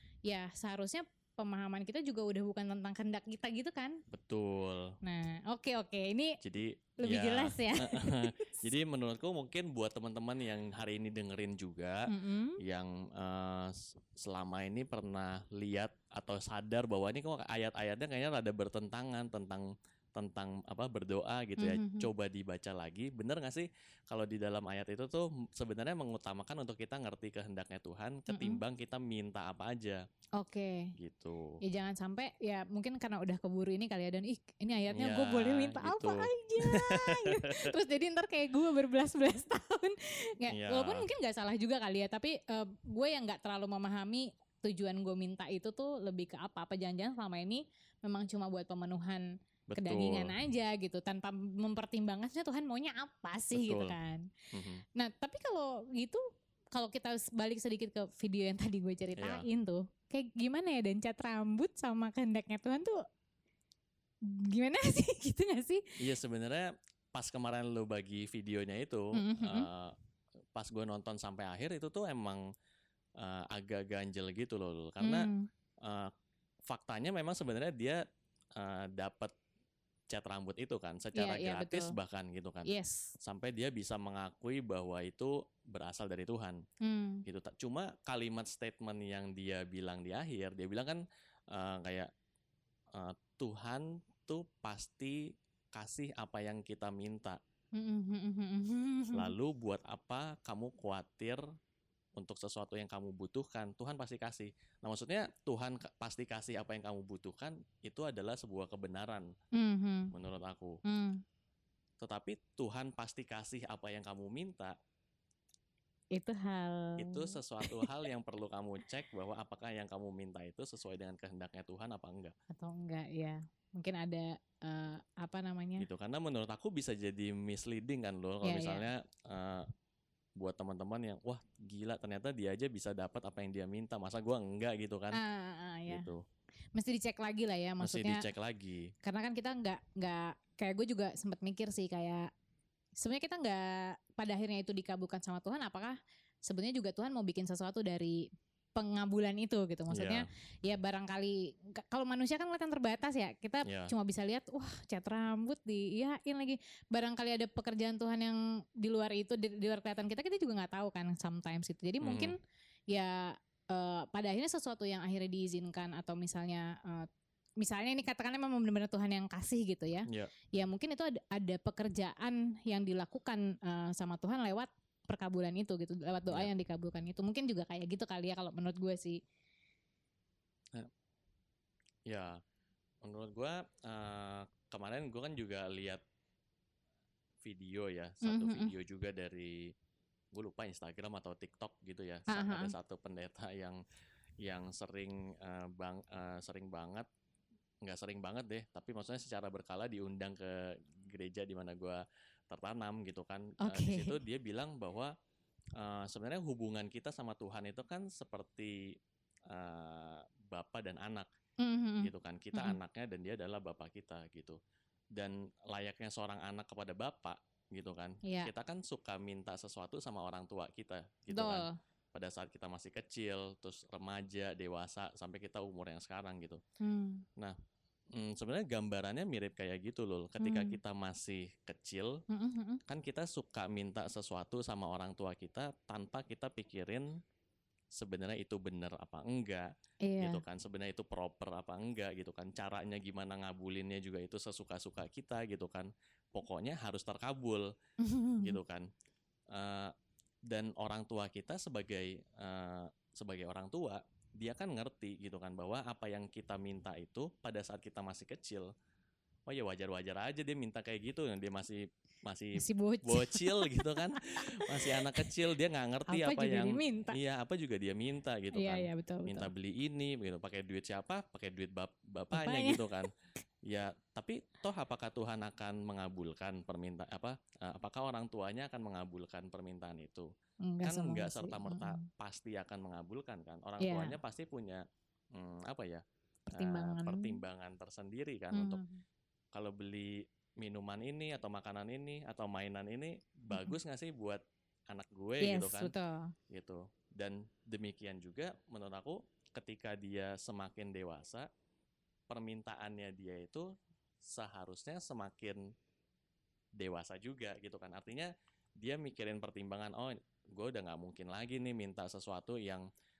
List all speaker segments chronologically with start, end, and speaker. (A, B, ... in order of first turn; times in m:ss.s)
0:00.2-0:04.0 A
0:04.1-0:05.0 B
0:05.0-0:06.4 A
0:06.4-0:12.0 B
0:07.0-0:08.6 A
0:12.1-0:12.6 A
0:12.6-0:30.0 B
0:21.6-0:22.1 A
0:28.3-0:28.6 A
0:30.4-0:30.9 A
0:31.0-0:31.6 B
0:31.6-0:54.2 A
0:34.9-0:37.7 B
0:40.5-0:41.1 B
0:49.7-0:50.3 B
0:53.5-0:54.0 B
0:54.5-0:54.8 B
0:54.9-0:56.2 A
0:56.7-1:03.0 A
0:59.2-0:59.4 B
1:04.3-1:05.8 A
1:06.0-1:09.9 B
1:09.2-1:09.7 A
1:10.5-1:12.4 B
1:13.2-1:15.2 B
1:15.0-1:15.5 A
1:15.8-1:16.1 B
1:16.7-1:18.0 B
1:18.6-1:19.3 B
1:20.1-1:26.6 B
1:21.1-1:22.0 A
1:22.6-1:23.1 A
1:26.8-1:27.2 A
1:27.2-1:32.1 B
1:32.9-1:37.4 B
1:37.8-1:39.3 A
1:39.1-1:41.4 B
1:42.2-1:49.3 B
1:49.5-1:50.1 A
1:50.1-1:50.8 B
1:50.8-1:51.2 A
1:52.0-1:54.7 B
1:56.1-1:57.9 A
1:57.0-2:02.3 B
2:02.5-2:05.9 A
2:05.8-2:09.7 B
2:08.4-2:08.8 A
2:10.4-2:15.2 B
2:15.1-2:16.0 A
2:15.9-2:16.2 B
2:16.7-2:18.2 A
2:17.8-2:18.9 B
2:19.0-2:22.3 A
2:23.0-2:28.2 A
2:28.7-2:42.4 A
2:29.9-2:30.2 B
2:33.6-2:33.9 B
2:42.0-2:42.3 B
2:42.9-2:47.1 A
2:47.6-2:59.2 A
3:02.1-3:02.4 B
3:03.0-3:06.0 B
3:07.4-3:09.7 B
3:08.2-3:08.7 A
3:10.3-3:13.8 B
3:12.3-3:12.7 A
3:14.4-3:17.1 B
3:17.8-3:25.1 B
3:23.6-3:24.2 A
3:25.8-3:28.9 B
3:29.5-3:31.3 B
3:31.6-3:32.8 A
3:32.0-3:34.6 B
3:35.1-3:46.6 B
3:38.2-3:38.5 A
3:41.3-3:41.8 A
3:46.8-3:47.2 A
3:48.1-3:52.2 B
3:50.4-3:50.8 A
3:52.3-3:52.8 A
3:52.9-3:57.1 B
3:58.0-3:59.7 B
4:00.0-4:00.4 A
4:00.2-4:07.7 B
4:08.0-4:08.6 A
4:08.4-4:08.9 B
4:09.5-4:09.9 B
4:10.5-4:18.7 B
4:19.5-4:33.1 B
4:22.6-4:25.3 A
4:26.1-4:27.2 A
4:28.5-4:29.5 A
4:32.3-4:33.1 A
4:33.7-4:40.3 B
4:40.6-4:42.0 A
4:40.8-4:44.8 B
4:43.8-4:44.2 A
4:45.3-4:48.8 B
4:46.5-4:47.4 A
4:48.5-4:49.0 A
4:49.5-4:55.9 B
4:55.4-4:56.3 A
4:56.5-5:01.5 B
5:02.3-5:03.7 B
5:04.3-5:05.6 B
5:06.8-5:12.9 B